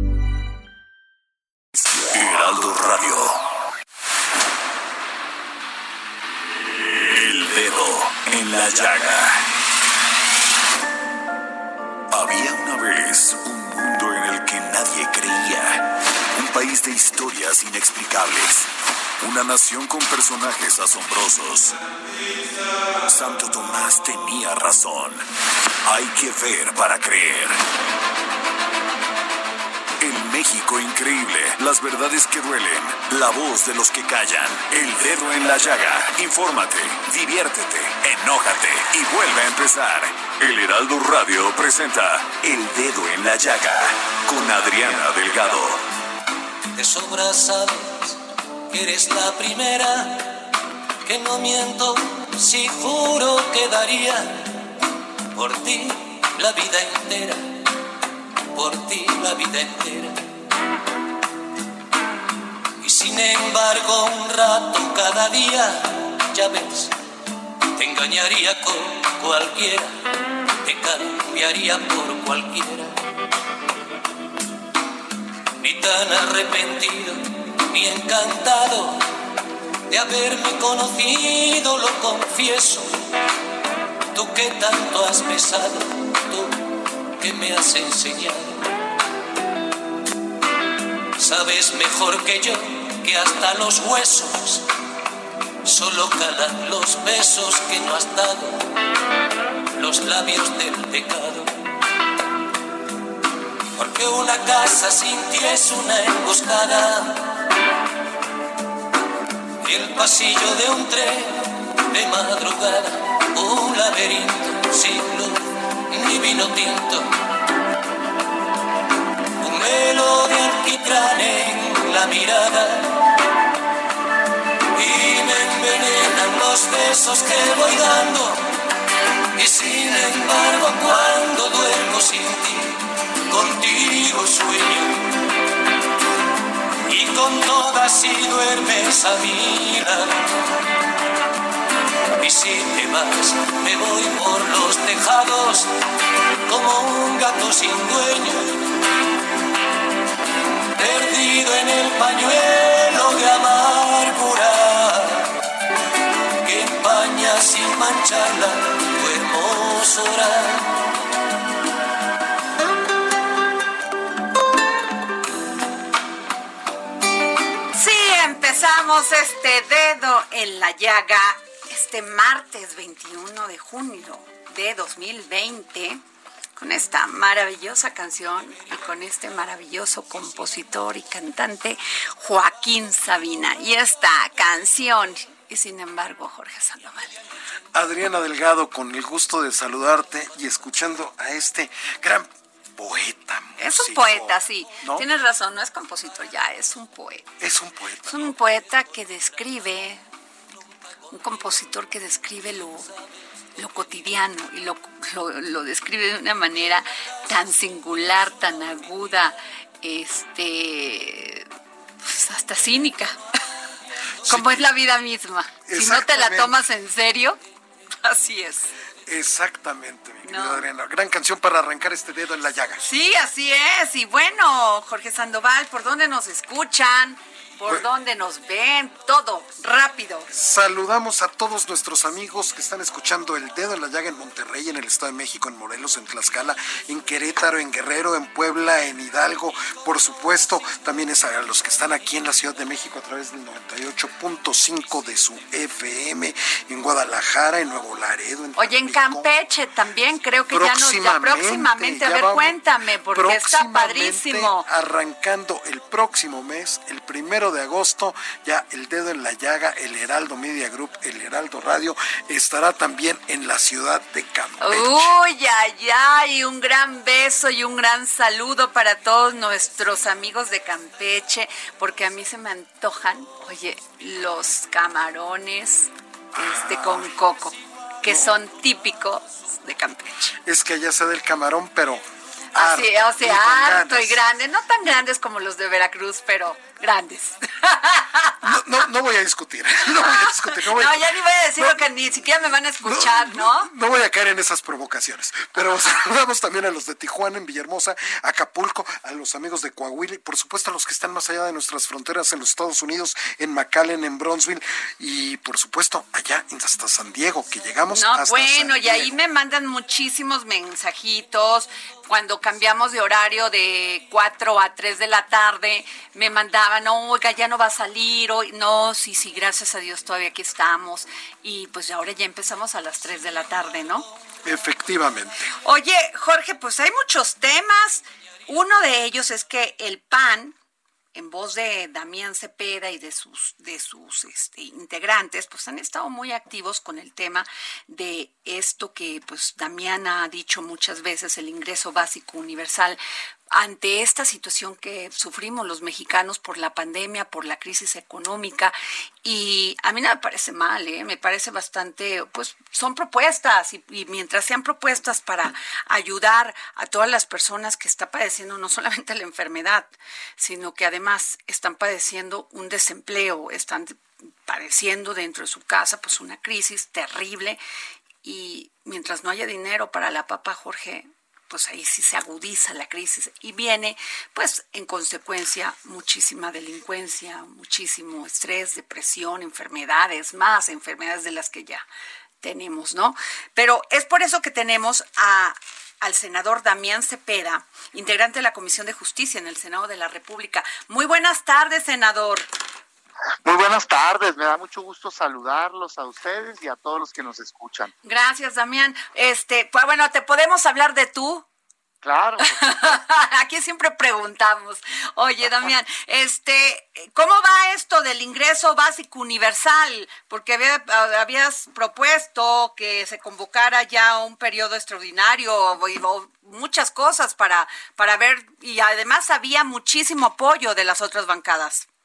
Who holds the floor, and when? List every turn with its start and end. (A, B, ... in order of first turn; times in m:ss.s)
0:01.9-0:03.4 A
0:06.7-0:09.5 A
0:12.1-0:21.8 A
0:23.0-0:25.3 A
0:25.8-0:27.6 A
0:30.0-0:45.8 A
0:46.8-0:50.4 B
0:51.0-0:54.5 B
0:55.3-0:57.4 B
0:58.5-1:00.2 B
1:02.8-1:07.0 B
1:07.8-1:10.0 B
1:10.6-1:13.0 B
1:15.6-1:19.0 B
1:19.9-1:23.0 B
1:24.1-1:26.6 B
1:27.2-1:28.7 B
1:31.2-1:34.7 B
1:35.6-1:38.7 B
1:39.8-1:41.6 B
1:43.8-1:47.4 B
1:49.6-1:57.1 B
1:59.4-2:03.0 B
2:04.7-2:08.5 B
2:09.4-2:15.2 B
2:16.8-2:20.3 B
2:22.2-2:25.7 B
2:26.5-2:28.6 B
2:30.8-2:35.3 B
2:36.4-2:40.7 B
2:47.7-2:56.0 C
2:56.6-3:07.1 C
3:07.7-3:15.1 D
3:13.6-3:17.3 C
3:17.4-3:18.4 D
3:18.1-3:20.0 C
3:21.1-3:22.9 C
3:23.6-3:31.5 C
3:32.0-3:33.2 C
3:34.2-3:34.7 D
3:34.3-3:37.4 C
3:35.7-3:36.6 D
3:38.0-3:38.7 C
3:39.1-3:42.8 D
3:40.2-3:40.6 C
3:42.8-3:50.3 C
3:50.3-4:09.3 D
4:08.6-4:14.7 C
4:10.5-4:12.6 D
4:13.1-4:25.1 D
4:24.6-4:40.4 C
4:36.4-4:37.1 D
4:38.0-4:38.3 D
4:40.4-4:42.0 D
4:42.5-4:48.6 C
4:42.6-4:44.2 D
4:48.4-4:51.9 D
4:49.9-4:53.7 C
4:52.8-5:09.2 D
5:07.9-5:24.1 C
5:24.4-5:25.5 D
5:25.6-5:30.6 C
5:31.2-5:43.0 C
5:43.5-6:07.6 C
6:08.2-6:21.9 C
6:22.4-6:32.5 C
6:33.4-6:37.9 E
6:38.0-6:41.4 C
6:42.0-6:43.0 E
6:42.4-7:01.9 C